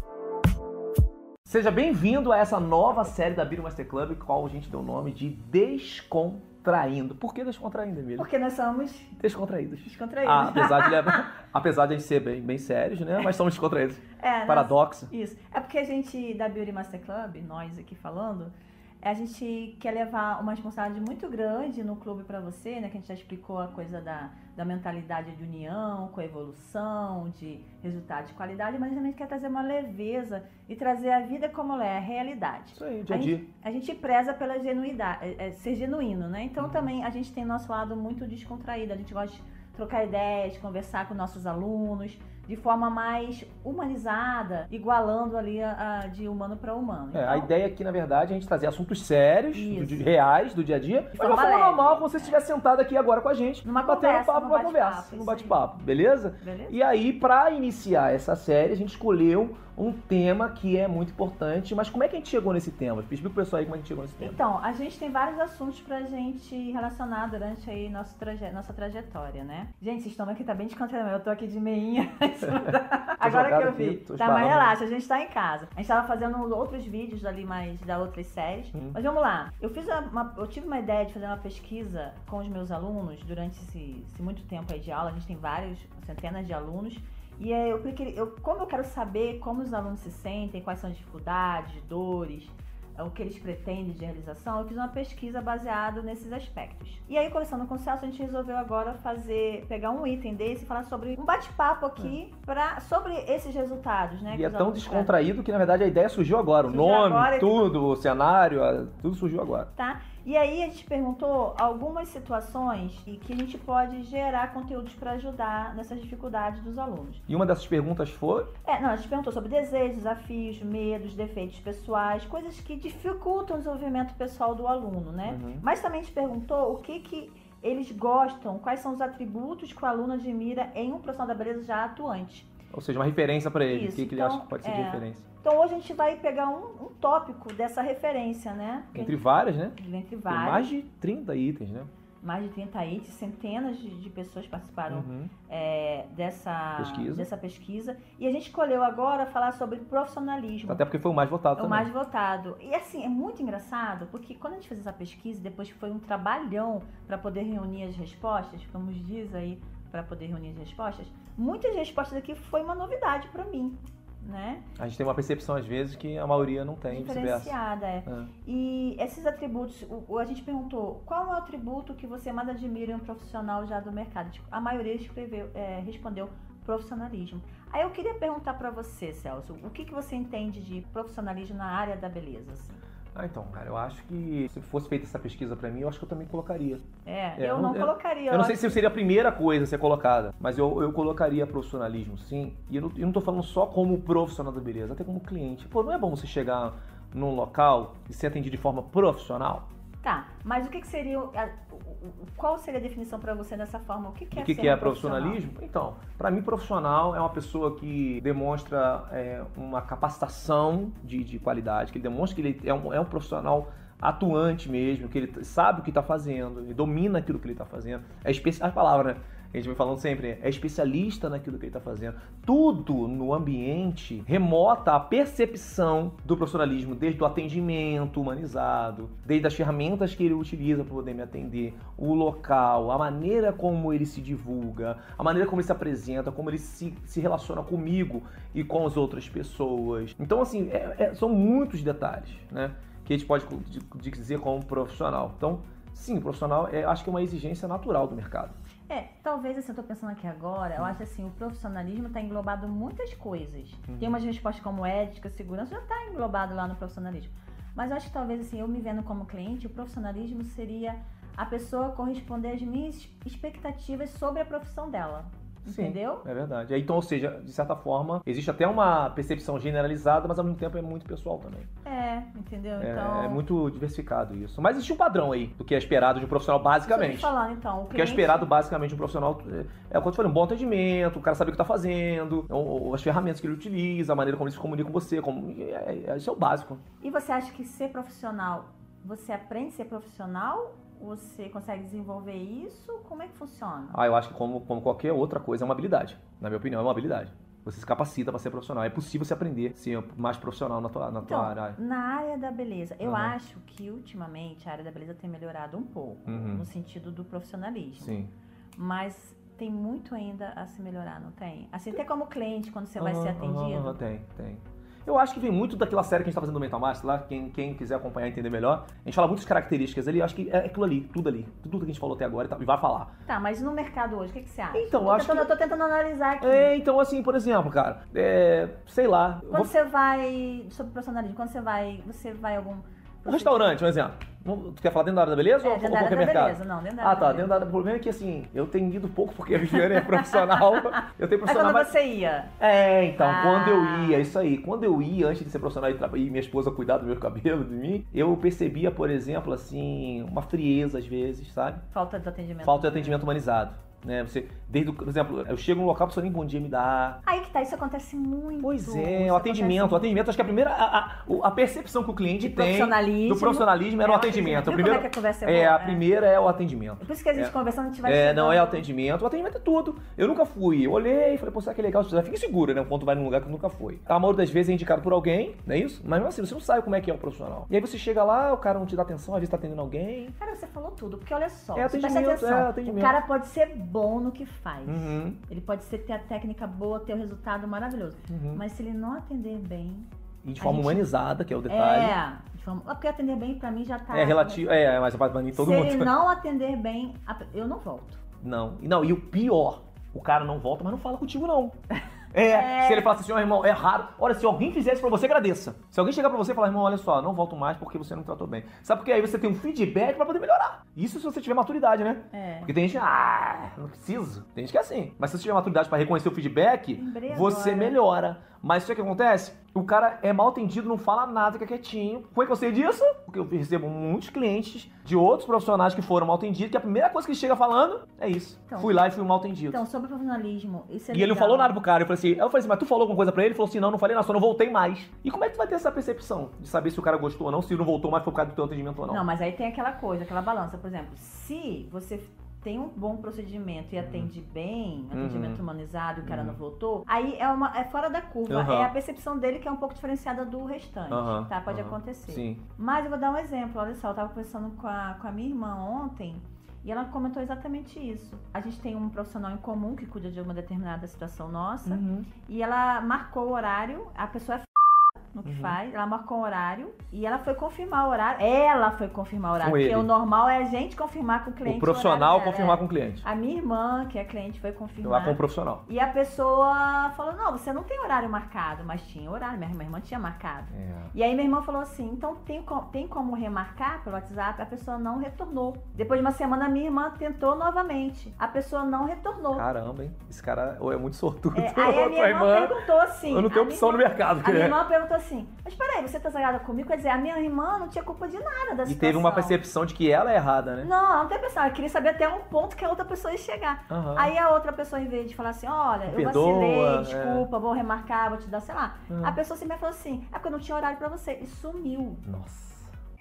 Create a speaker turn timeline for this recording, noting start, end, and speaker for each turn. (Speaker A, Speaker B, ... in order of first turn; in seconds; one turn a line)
Speaker A: 1.4-8.3
Speaker B: 8.2-9.2
Speaker A: 9.2-15.1
Speaker B: 9.8-11.3
Speaker B: 14.2-47.5
Speaker A: 32.7-33.4
Speaker A: 36.6-36.9
Speaker A: 47.1-64.4
Speaker B: 49.5-50.1
Speaker B: 51.1-52.4
Speaker B: 53.6-55.6
Speaker B: 56.4-56.7
Speaker B: 64.2-105.2
Speaker A: 73.2-74.7
Speaker A: 78.7-79.0
Speaker A: 104.3-109.7
Speaker B: 106.6-107.7
Speaker B: 109.8-117.2
Speaker A: 117.3-118.5
Speaker B: 118.6-132.5
Speaker A: 125.2-125.6
Speaker A: 132.7-135.2
Speaker B: 133.7-139.2
Speaker A: 138.9-139.8
Speaker B: 139.7-140.7
Speaker A: 140.3-141.9
Speaker B: 142.2-150.8
Speaker A: 144.9-145.3
Speaker A: 146.8-147.3
Speaker A: 150.7-151.9
Speaker B: 151.6-164.7
Speaker A: 164.8-167.5
Speaker B: 166.9-182.8
Speaker A: 183.1-186.8
Speaker B: 187.1-188.8
Speaker A: 187.4-199.7
Speaker B: 200.0-205.4
Speaker A: 204.3-248.5
Speaker B: 248.9-266.2
Speaker A: 253.9-254.2
Speaker A: 265.6-271.7
Speaker B: 271.8-273.4
Speaker A: 272.8-277.3
Speaker B: 276.9-278.5
Speaker A: 277.9-286.8
Speaker B: 287.0-294.0
Speaker A: 293.9-301.8
Speaker B: 301.2-308.2
Speaker A: 303.0-303.3
Speaker A: 306.2-306.6
Speaker A: 308.0-308.3
Speaker B: 308.8-314.0
Speaker A: 313.0-323.1
Speaker B: 323.3-326.7
Speaker A: 324.7-325.5
Speaker A: 326.4-329.7
Speaker B: 329.5-333.8
Speaker A: 333.2-341.9
Speaker B: 335.6-337.5
Speaker B: 339.6-342.5
Speaker A: 342.6-351.8
Speaker B: 343.2-344.3
Speaker B: 351.9-353.2
Speaker A: 352.6-357.2
Speaker B: 357.2-360.1
Speaker A: 358.6-380.4
Speaker B: 362.4-366.0
Speaker B: 367.0-368.8
Speaker B: 380.4-390.1
Speaker A: 381.7-383.2
Speaker A: 384.9-385.4
Speaker A: 388.3-388.6
Speaker A: 390.4-392.1
Speaker B: 390.6-391.1
Speaker B: 391.7-394.7
Speaker A: 394.1-396.1
Speaker B: 395.5-398.2
Speaker A: 398.4-401.8
Speaker A: 402.3-429.8
Speaker B: 402.5-403.1
Speaker B: 412.3-412.7
Speaker B: 416.9-418.0
Speaker B: 428.7-429.0
Speaker B: 429.7-431.7
Speaker A: 431.1-439.2
Speaker B: 439.1-489.6
Speaker A: 444.0-444.3
Speaker A: 445.1-445.6
Speaker A: 446.2-446.6
Speaker A: 448.5-448.9
Speaker A: 451.1-452.6
Speaker A: 461.9-462.3
Speaker A: 465.4-465.8
Speaker A: 469.6-470.1
Speaker A: 471.6-473.2
Speaker A: 475.0-475.8
Speaker A: 480.7-481.1
Speaker A: 489.5-494.8
Speaker B: 491.5-499.6
Speaker A: 498.9-500.9
Speaker B: 500.8-512.2
Speaker A: 503.9-504.3
Speaker A: 506.1-507.5
Speaker A: 509.1-509.4
Speaker A: 512.2-512.9